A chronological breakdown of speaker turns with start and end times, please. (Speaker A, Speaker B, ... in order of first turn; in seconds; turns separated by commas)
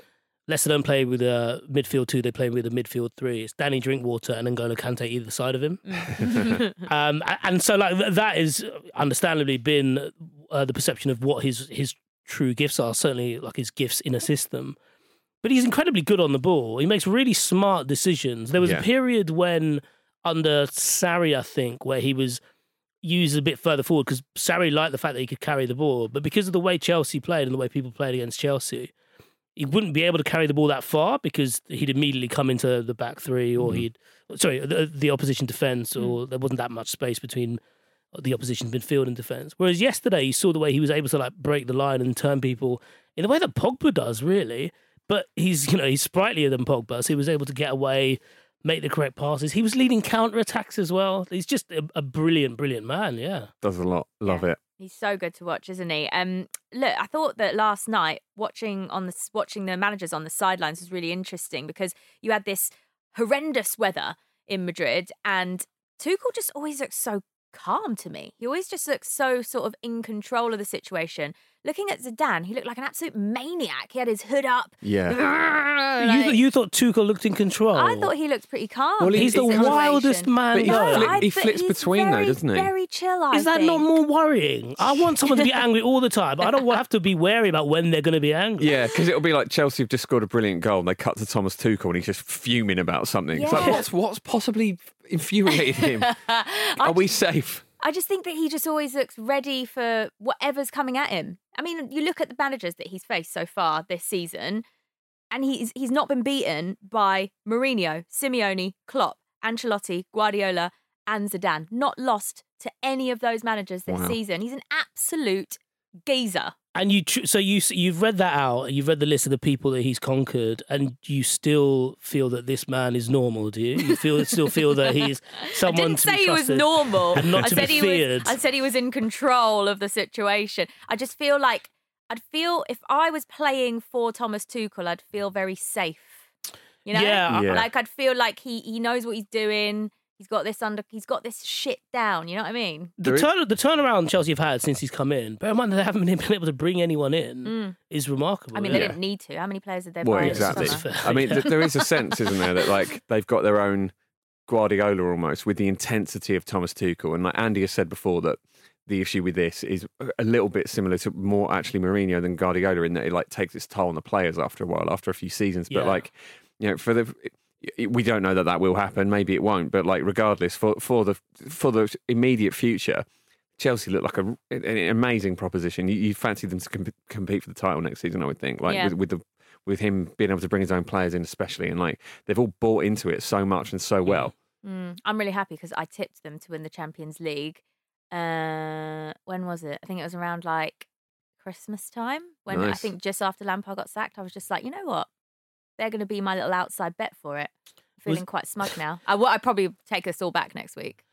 Speaker A: 0.5-14.8, Speaker B: 5.9-6.8, Speaker A: 15.4-22.4, Speaker C: 18.6-18.9, Speaker A: 23.0-28.9, Speaker A: 29.6-37.6, Speaker C: 33.6-33.9, Speaker A: 38.1-53.5, Speaker C: 53.6-54.6, Speaker B: 54.2-74.8, Speaker C: 74.8-75.2, Speaker A: 75.1-78.1, Speaker B: 76.0-76.4, Speaker B: 77.7-83.9, Speaker C: 79.0-79.9, Speaker A: 79.2-81.2, Speaker C: 80.5-82.7, Speaker A: 83.3-88.7, Speaker C: 88.6-96.2, Speaker B: 93.3-93.8, Speaker A: 93.5-93.8, Speaker B: 95.5-97.1, Speaker C: 96.8-97.7, Speaker B: 97.8-104.6, Speaker B: 105.3-116.5, Speaker C: 113.9-114.2, Speaker A: 116.8-128.4, Speaker B: 124.6-136.2, Speaker B: 136.9-142.9, Speaker A: 136.9-137.5, Speaker C: 137.3-137.7, Speaker A: 143.0-149.0, Speaker C: 143.0-143.3, Speaker B: 147.4-147.8, Speaker B: 148.5-151.5, Speaker C: 148.7-149.0, Speaker C: 150.0-153.9, Speaker A: 150.2-151.8, Speaker C: 154.5-173.0, Speaker A: 165.7-166.0, Speaker C: 173.6-184.3, Speaker B: 178.7-178.9, Speaker B: 184.6-190.9, Speaker B: 191.4-195.1, Speaker C: 192.5-192.9, Speaker B: 195.8-201.0